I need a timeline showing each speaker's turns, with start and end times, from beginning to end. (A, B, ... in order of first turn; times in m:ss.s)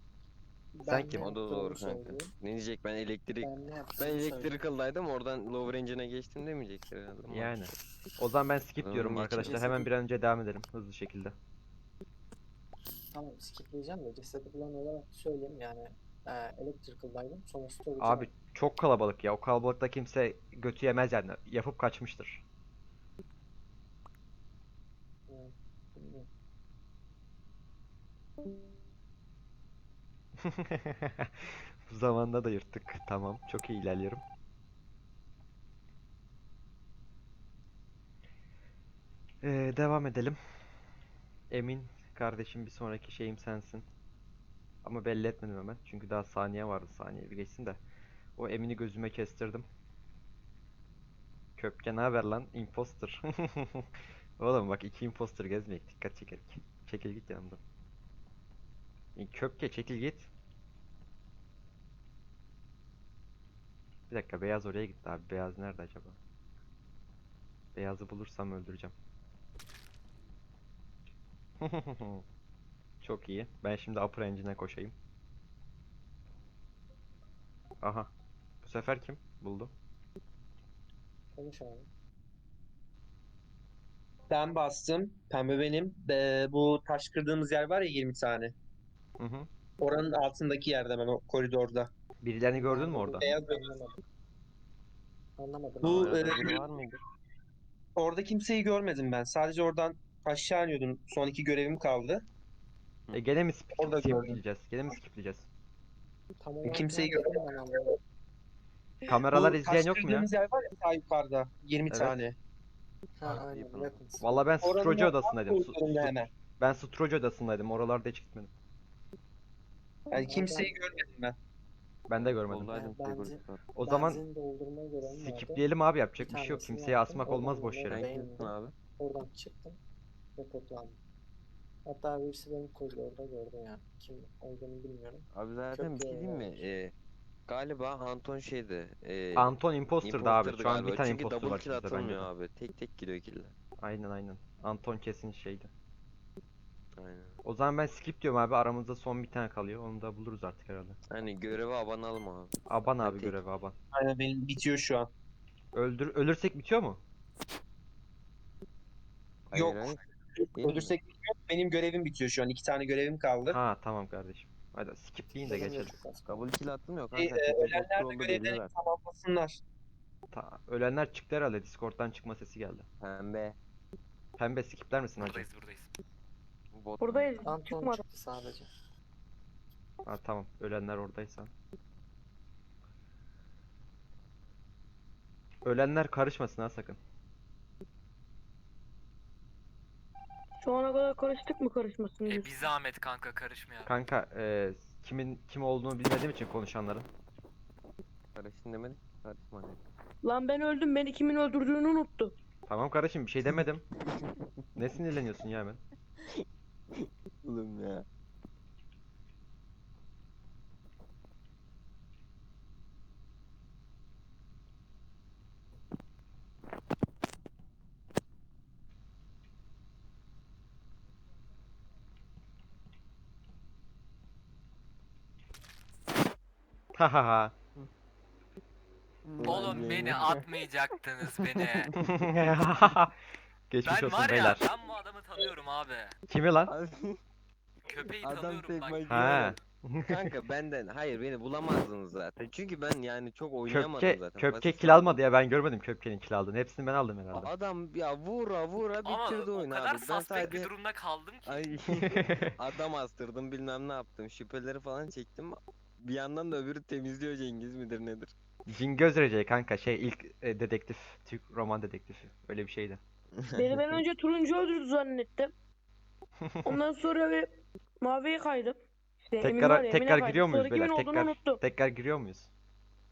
0:00.7-0:02.3 A
0:00.9-0:01.2 B
0:01.2-0:07.7 C
0:03.4-0:04.6 A
0:07.3-0:11.3 B
0:08.8-0:09.7 C
0:09.4-0:09.9 A
0:13.1-0:18.3 A
0:18.0-0:22.4 B
0:25.3-0:26.3 A
0:30.6-0:34.2 B
0:39.4-0:40.4 B
0:41.5-0:43.8 B
0:44.8-0:47.8 B
0:48.4-0:49.6 B
0:51.6-0:57.6 B
0:59.2-1:00.3 B
1:04.1-1:06.2 B
1:07.7-1:08.9 B
1:11.6-1:12.2 B
1:13.0-1:14.9 B
1:17.8-1:18.1 B
1:18.6-1:19.7 B
1:21.3-1:21.9 A
1:24.3-1:28.5 D
1:29.2-1:29.5 B
1:29.8-1:31.9 D
1:29.8-1:30.3 A
1:32.2-1:33.3 B
1:32.5-1:33.9 A
1:33.2-1:33.7 D
1:35.4-1:36.6 A
1:35.8-1:36.6 D
1:35.8-1:37.0 C
1:38.0-1:42.2 D
1:43.1-1:45.5 B
1:43.8-1:44.4 D
1:46.4-1:47.9 A
1:46.6-1:47.4 D
1:49.0-1:50.2 B
1:49.3-1:52.4 D
1:51.9-1:52.2 B
1:53.2-1:54.6 A
1:53.3-1:54.0 C
1:54.2-1:58.5 B
1:54.6-1:56.3 D
2:00.1-2:01.4 D
2:00.1-2:00.7 A
2:02.1-2:02.8 B
2:02.1-2:03.6 C
2:02.7-2:05.6 A
2:03.7-2:04.2 B
2:05.0-2:08.1 B
2:06.2-2:09.8 A
2:07.9-2:08.7 C
2:10.4-2:11.0 A
2:11.8-2:16.6 A
2:15.3-2:16.9 C
2:17.5-2:23.5 C
2:19.3-2:22.3 B
2:23.8-2:25.7 B
2:27.0-2:27.4 C
2:27.4-2:31.0 B
2:31.1-2:33.4 C
2:32.7-2:33.7 B
2:33.9-2:35.1 D
2:35.7-2:37.0 B
2:39.5-2:40.0 C
2:39.5-2:43.6 D
2:40.5-2:40.9 C
2:43.5-2:45.9 B
2:45.4-2:46.4 A
2:46.2-2:48.7 C
2:47.1-2:49.6 D
2:50.3-2:52.8 B
2:53.0-2:53.6 C
2:54.4-2:55.4 B
2:55.2-2:55.9 E
2:56.7-2:57.4 C
2:57.0-2:58.0 F
2:57.4-2:58.7 A
3:00.0-3:01.5 B
3:05.6-3:07.0 B
3:10.6-3:12.5 F
3:12.2-3:13.9 E
3:13.8-3:17.1 B
3:18.4-3:19.8 C
3:20.2-3:22.3 F
3:22.7-3:23.8 B
3:24.8-3:25.8 B
3:27.0-3:28.0 C
3:46.9-3:47.5 B
3:49.4-3:50.5 C
3:49.4-3:51.9 E
3:52.0-3:53.1 B
3:53.7-3:54.6 B
3:53.8-3:56.1 E
3:56.3-3:56.7 B
3:56.7-3:57.2 C
3:57.8-3:59.5 E
3:58.0-4:05.2 C
3:59.1-4:00.3 B
4:03.7-4:07.5 B
4:07.3-4:10.7 C
4:09.0-4:11.7 E
4:11.4-4:18.3 C
4:12.2-4:12.5 B
4:18.7-4:23.0 B
4:23.5-4:25.5 F
4:23.6-4:24.0 C
4:26.6-4:27.5 F
4:28.0-4:28.8 F
4:29.3-4:31.6 F
4:29.4-4:32.5 B